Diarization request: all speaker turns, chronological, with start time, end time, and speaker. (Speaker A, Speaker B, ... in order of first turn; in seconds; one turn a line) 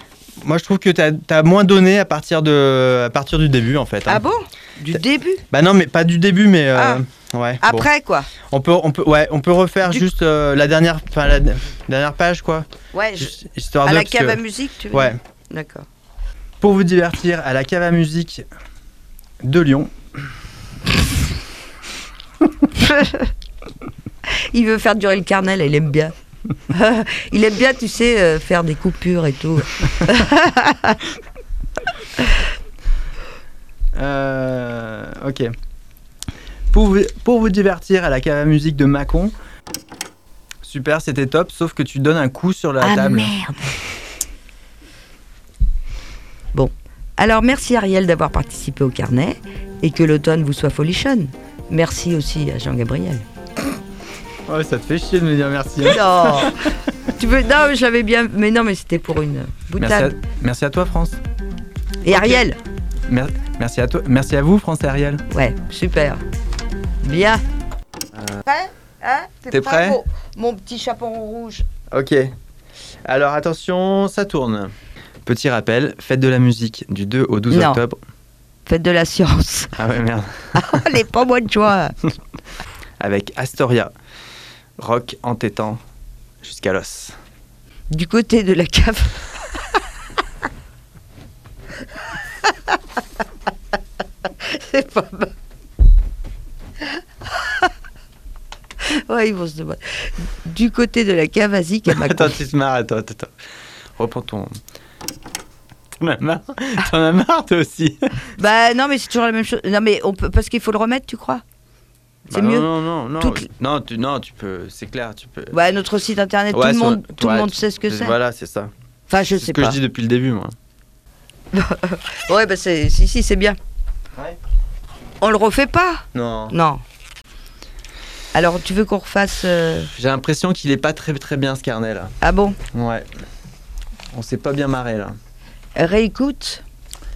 Speaker A: 0.4-4.2
Speaker B: 4.0-5.4
Speaker A: 5.5-7.9
Speaker B: 6.7-7.0
Speaker B: 7.6-8.3
Speaker A: 8.5-12.7
Speaker B: 12.9-15.9
Speaker A: 13.2-15.2
Speaker A: 16.6-18.4
Speaker A: 19.4-19.9
Speaker B: 22.7-23.3
Speaker B: 24.3-26.1
Speaker B: 26.7-31.0
Speaker A: 34.0-35.5
Speaker A: 36.7-39.3
Speaker A: 40.6-43.3
Speaker B: 42.8-43.7
Speaker B: 46.5-53.2
Speaker A: 54.5-56.7
Speaker B: 55.8-60.1
Speaker A: 59.8-61.2
Speaker B: 62.0-62.6
Speaker A: 62.1-62.4
Speaker A: 63.1-65.2
Speaker B: 65.3-66.2
Speaker B: 67.0-67.4
Speaker B: 68.4-71.7
Speaker A: 69.5-70.0
Speaker A: 71.9-72.3
Speaker A: 73.0-74.7
Speaker A: 75.2-78.0
Speaker B: 77.5-77.8
Speaker B: 78.7-79.7
Speaker A: 79.7-80.9
Speaker B: 80.5-82.0
Speaker A: 83.0-83.9
Speaker A: 84.8-85.8
Speaker A: 86.4-87.1
Speaker B: 87.9-89.8
Speaker B: 94.4-95.3
Speaker B: 97.3-97.7
Speaker B: 98.8-102.4
Speaker A: 101.9-103.3
Speaker A: 104.0-104.6
Speaker A: 106.0-108.2
Speaker B: 108.4-111.4
Speaker A: 112.3-115.5
Speaker B: 112.3-113.5
Speaker B: 115.5-118.2
Speaker A: 116.5-118.7
Speaker B: 119.1-119.8
Speaker A: 119.3-120.5
Speaker B: 121.5-123.6
Speaker B: 125.2-126.8
Speaker A: 126.1-126.5
Speaker B: 128.3-129.9
Speaker A: 129.9-132.1
Speaker B: 132.2-132.6
Speaker A: 132.7-133.1
Speaker A: 134.1-135.2
Speaker B: 135.8-136.6